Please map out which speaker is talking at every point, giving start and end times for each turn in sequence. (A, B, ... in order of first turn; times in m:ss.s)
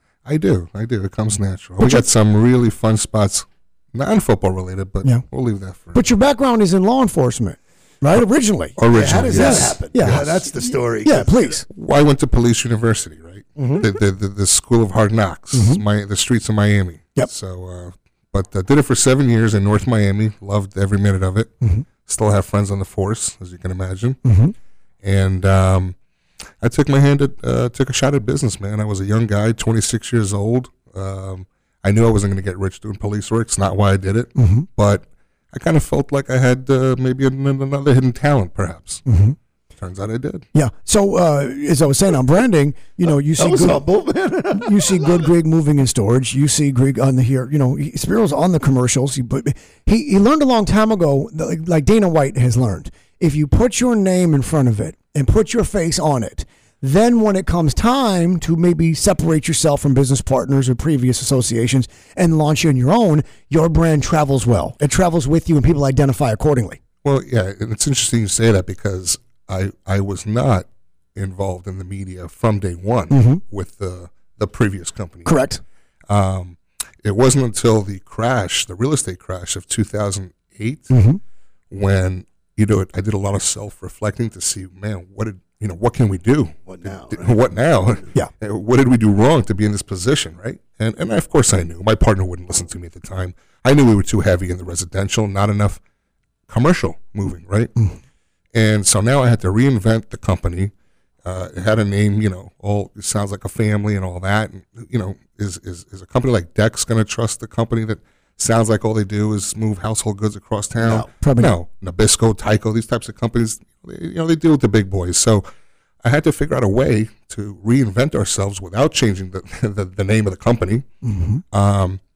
0:00.2-0:06.0 A
0:01.8-0:02.0 B
0:05.9-0:08.8 B
0:08.8-0:10.4 A
0:08.9-0:11.6 C
0:09.3-0:11.6 B
0:11.7-0:21.5 A
0:13.6-0:13.8 B
0:15.5-0:15.8 B
0:22.0-0:24.2 A
0:24.2-0:24.5 B
0:25.0-0:26.0 A
0:26.6-0:39.0 A
0:34.4-0:34.7 B
0:39.0-0:39.4 B
0:39.8-0:40.4 A
0:40.5-0:43.8 B
0:43.4-0:45.3 C
0:44.5-1:06.8 B
1:07.0-1:15.4 A
1:13.1-1:13.4 B
1:15.2-1:15.6 B
1:16.1-1:20.9 A
1:20.9-1:21.2 B
1:21.7-1:35.8 A
1:26.6-1:28.1 C
1:36.5-1:37.7 A
1:38.5-1:40.7 A
1:41.2-1:55.4 A
1:50.8-1:51.1 C
1:51.2-1:51.5 B
1:56.0-2:00.8 A
2:01.0-2:01.4 B
2:01.5-2:02.0 A